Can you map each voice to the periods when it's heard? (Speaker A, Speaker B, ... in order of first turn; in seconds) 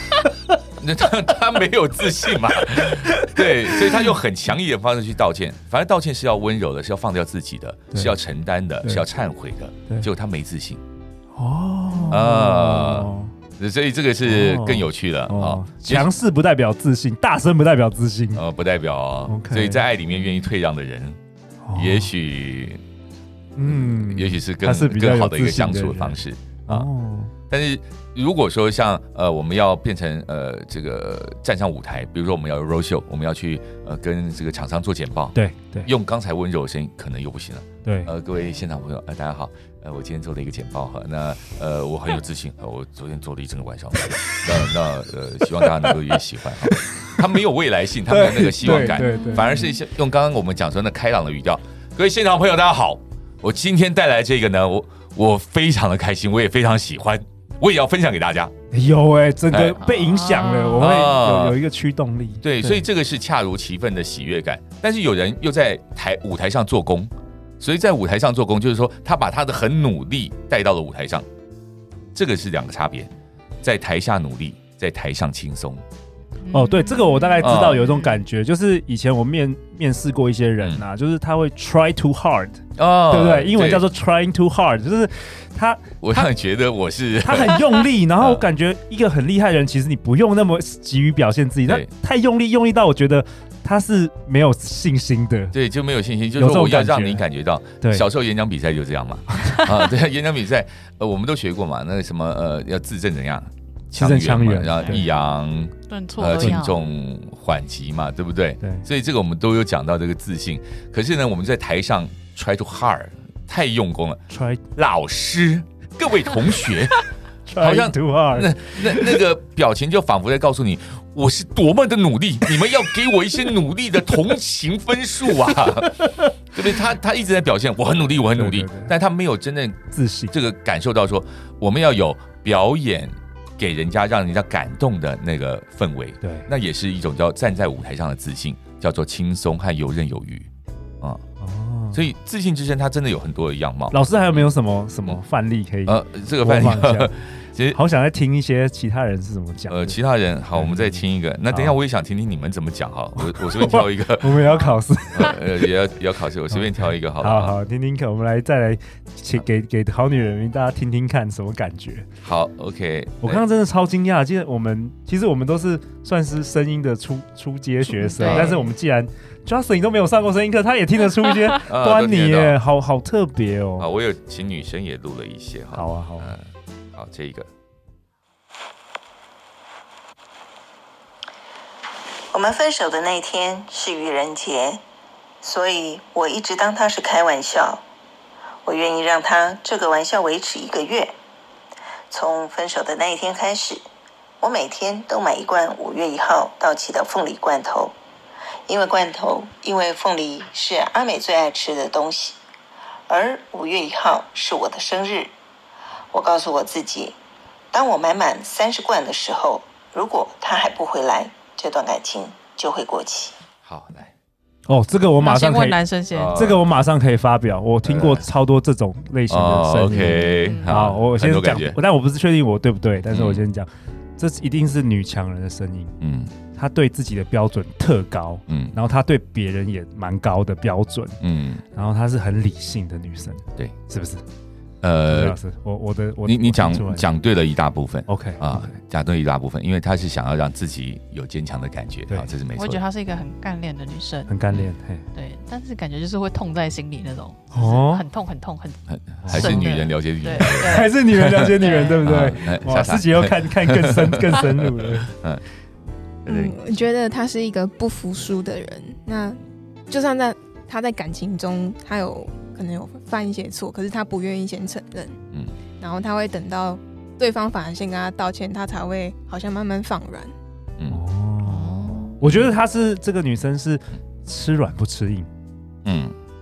Speaker A: 0.8-10.8, 12.1-16.1, 18.4-21.2, 21.7-22.8, 23.6-26.9, 27.5-58.5, 59.5-59.8, 60.8-61.6, 62.4-71.3, 72.1-73.1, 73.6-75.8, 77.4-78.1, 82.8-83.8, 86.0-88.5, 95.5-114.2, 114.8-117.1, 117.6-126.0, 126.5-129.8, 130.3-140.5, 141.9-144.4, 145.8-147.8, 149.7-157.6, 162.2-163.4, 168.2-168.6, 171.7-172.6, 173.8-177.5, 213.6-214.1, 216.1-216.7, 217.8-218.3, 219.3-221.8, 223.1-223.4, 226.0-226.3, 228.5-228.8, 231.2-231.6, 234.8-235.4, 236.2-242.8, 248.9-255.4, 256.2-256.6, 275.9-276.1
Speaker B: 8.8-9.1, 11.3-13.3, 14.2-18.4, 19.3-19.9, 21.6-22.1, 23.6-27.3, 35.3-35.9, 37.9-38.1, 48.1-49.7, 58.7-62.9, 76.5-86.3, 87.2-95.5, 96.4-97.2, 97.8-98.1, 99.3-99.7, 104.0-105.0, 114.3-114.6, 117.5-119.2, 125.5-126.1, 128.3-128.9, 129.9-130.3, 136.2-136.5, 141.4-142.0, 143.9-147.1, 147.7-150.0, 150.6-151.8, 153.2-155.4, 156.5-162.1, 163.2-173.9, 175.7-176.3, 214.7-215.8, 216.3-225.9, 226.5-231.2, 231.7-234.2, 235.1-237.1, 238.1-238.8, 244.3-245.1, 247.5-248.1, 249.2-249.7, 250.6-255.1, 270.9-275.3
Speaker C: 48.7-49.8, 59.8-61.0, 76.4-78.0, 104.8-105.0, 105.9-106.8, 168.0-168.7, 215.2-216.4, 220.0-220.9, 242.6-244.3, 245.2-251.0, 251.6-252.1, 271.4-272.2
Speaker D: 182.3-184.8, 185.4-187.8, 188.7-191.2, 192.1-193.8, 194.4-197.9, 198.7-202.4, 203.1-205.3, 206.1-207.2, 207.7-213.4
Speaker E: 256.3-265.2, 265.8-270.3